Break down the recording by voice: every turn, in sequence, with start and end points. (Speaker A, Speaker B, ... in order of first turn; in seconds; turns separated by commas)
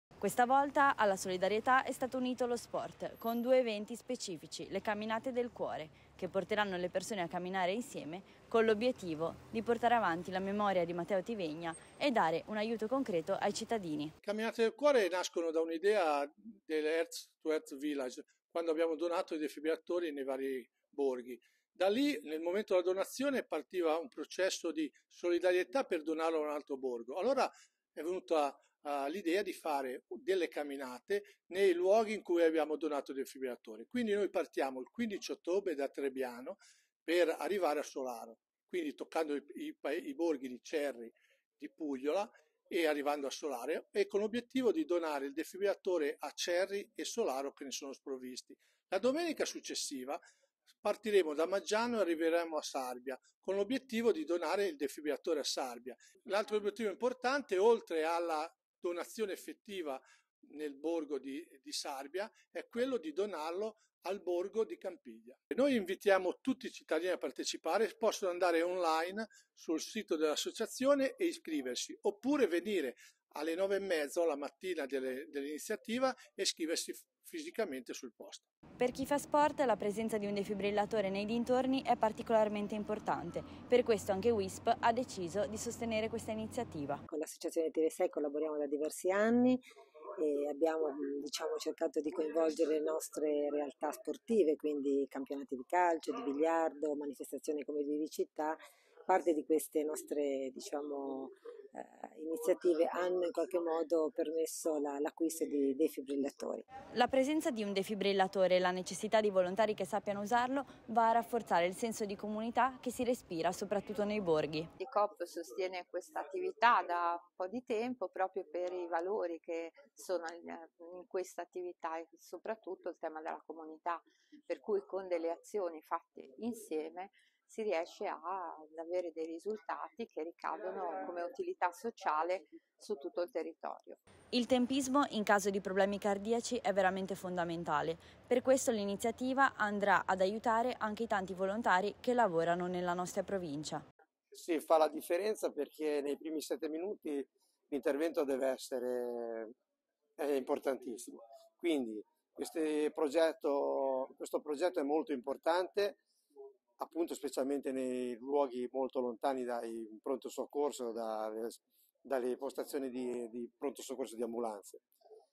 Speaker A: 0.2-14.1, Speaker B: 14.2-50.2, Speaker B: 50.8-78.4, Speaker A: 78.8-87.0, Speaker C: 87.1-89.6, Speaker C: 90.2-106.6, Speaker A: 106.9-114.7, Speaker D: 114.8-134.0, Speaker A: 134.3-143.8, Speaker E: 144.3-149.5, Speaker E: 150.2-156.0, Speaker E: 156.8-164.8